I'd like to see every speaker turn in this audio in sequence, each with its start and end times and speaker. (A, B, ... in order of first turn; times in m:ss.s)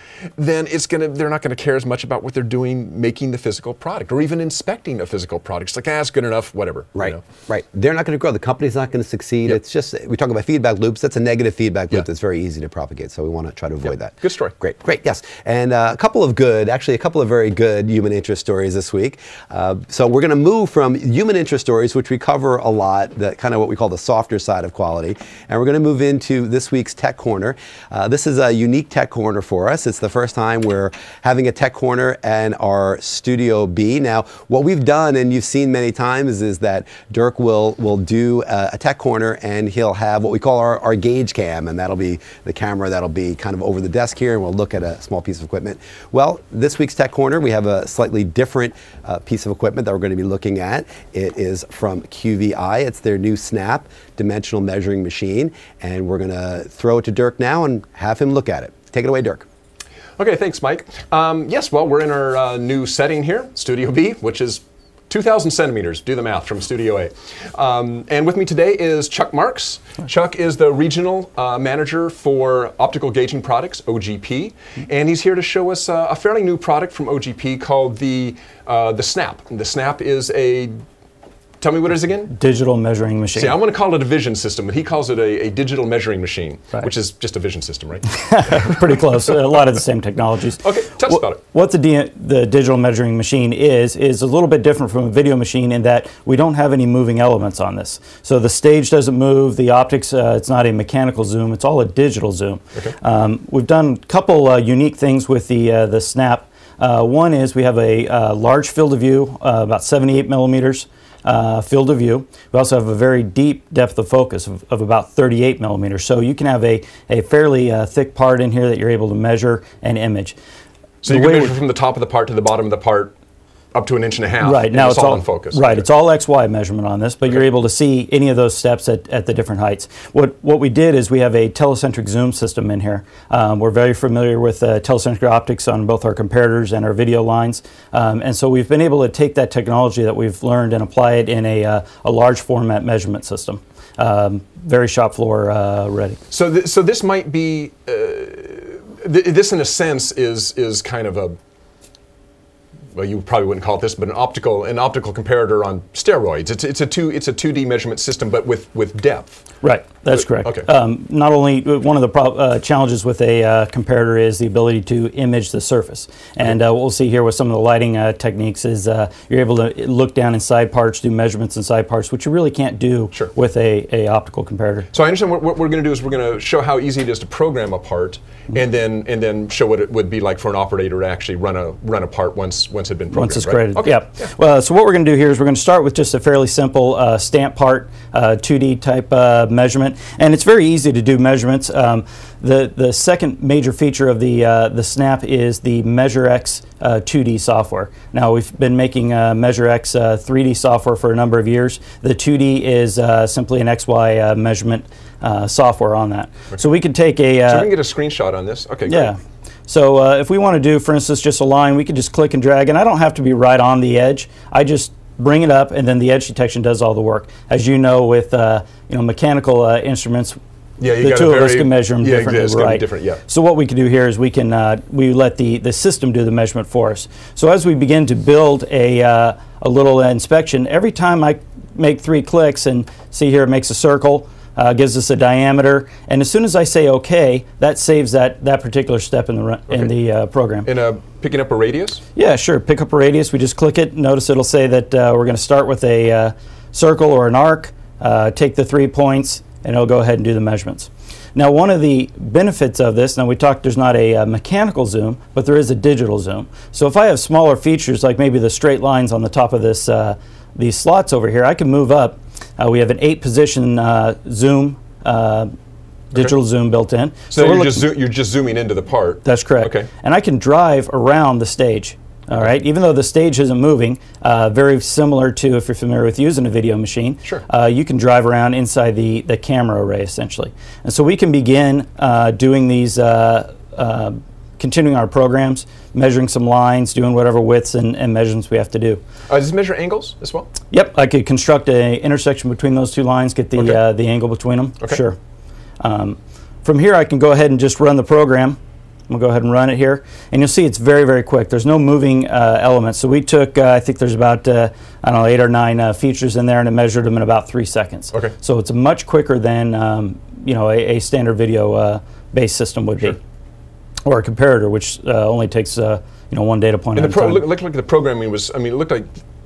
0:00.4-0:07.2 A
0:07.0-0:59.4 B
0:14.2-0:14.5 A
1:00.2-1:20.8 A
1:21.6-1:22.3 A
1:22.3-1:23.6 C
1:23.3-1:29.4 A
1:28.2-2:00.4 C
1:30.6-1:31.4 A
2:01.0-2:03.1 A
2:01.0-2:01.5 C
2:03.7-2:05.8 A
2:04.4-2:26.2 C
2:26.3-2:31.4 A
2:32.9-2:39.4 A
2:39.6-2:54.9 C
2:40.2-2:40.7 A
2:54.9-3:04.3 A
3:03.1-3:27.7 C
3:27.5-3:29.1 A
3:28.9-3:40.4 C
3:40.8-3:43.2 A
3:41.0-4:00.7 C
4:00.6-4:02.0 A
4:02.2-4:25.5 C
4:26.1-4:27.8 C
4:27.3-4:29.9 A
4:29.2-4:49.0 C
4:49.3-4:50.5 A
4:50.7-4:55.2 C
4:55.8-4:58.6 C
4:59.1-5:13.2 C
5:14.0-5:17.4 C
5:17.0-5:19.1 A